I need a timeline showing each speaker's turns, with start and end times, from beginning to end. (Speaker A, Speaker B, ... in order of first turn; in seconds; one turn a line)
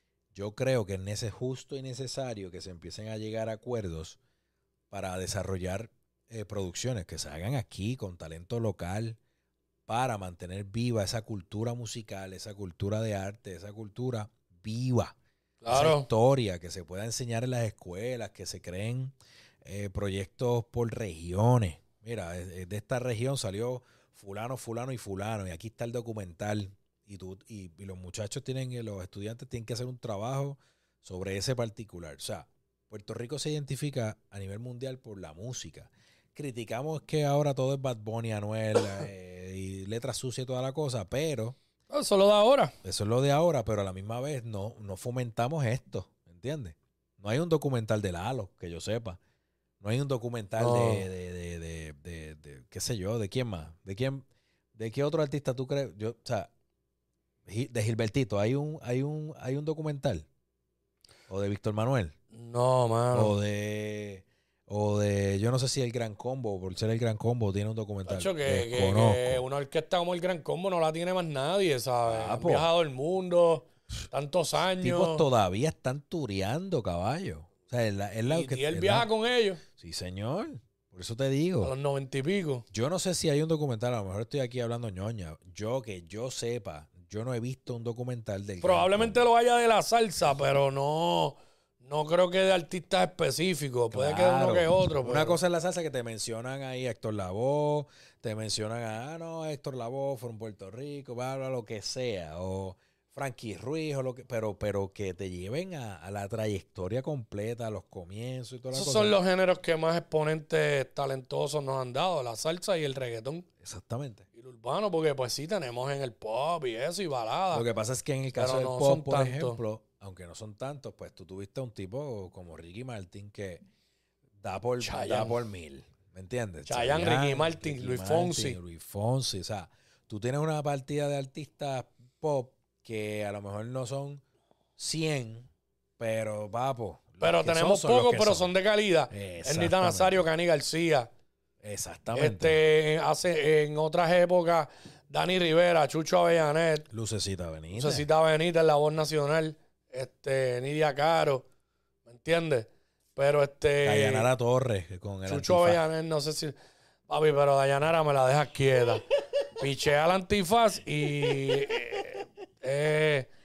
Speaker A: 0.3-4.2
Speaker A: 4.9-9.2
Speaker A: 9.9-15.2
Speaker B: 15.6-16.1
Speaker A: 15.7-41.6
Speaker B: 41.9-42.7
Speaker A: 42.8-49.2
Speaker A: 49.8-56.5
Speaker B: 50.6-51.1
Speaker A: 57.5-60.2
Speaker A: 61.3-62.1
Speaker B: 62.3-63.4
Speaker A: 63.1-69.4
Speaker B: 68.1-75.2
Speaker A: 72.0-72.7
Speaker A: 74.8-79.1
Speaker B: 78.3-79.6
Speaker A: 79.7-81.7
Speaker B: 81.6-82.6
Speaker A: 82.7-89.2
Speaker B: 88.6-95.4
Speaker A: 93.9-109.1
Speaker B: 108.7-113.5
Speaker A: 113.6-114.2
Speaker B: 114.3-117.7
Speaker A: 117.5-123.6
Speaker B: 118.4-119.6
Speaker A: 124.4-134.2
Speaker B: 124.8-125.4
Speaker B: 126.7-128.6
Speaker A: 134.8-135.5
Speaker A: 136.0-138.5
Speaker B: 137.2-141.1
Speaker A: 139.1-140.2
Speaker A: 141.6-142.6
Speaker B: 142.1-146.8
Speaker A: 146.9-148.1
Speaker B: 147.7-151.4
Speaker B: 152.1-154.3
Speaker A: 153.8-155.8
Speaker B: 155.3-156.5
Speaker B: 157.1-159.0
Speaker B: 159.6-163.3
Speaker A: 161.2-161.7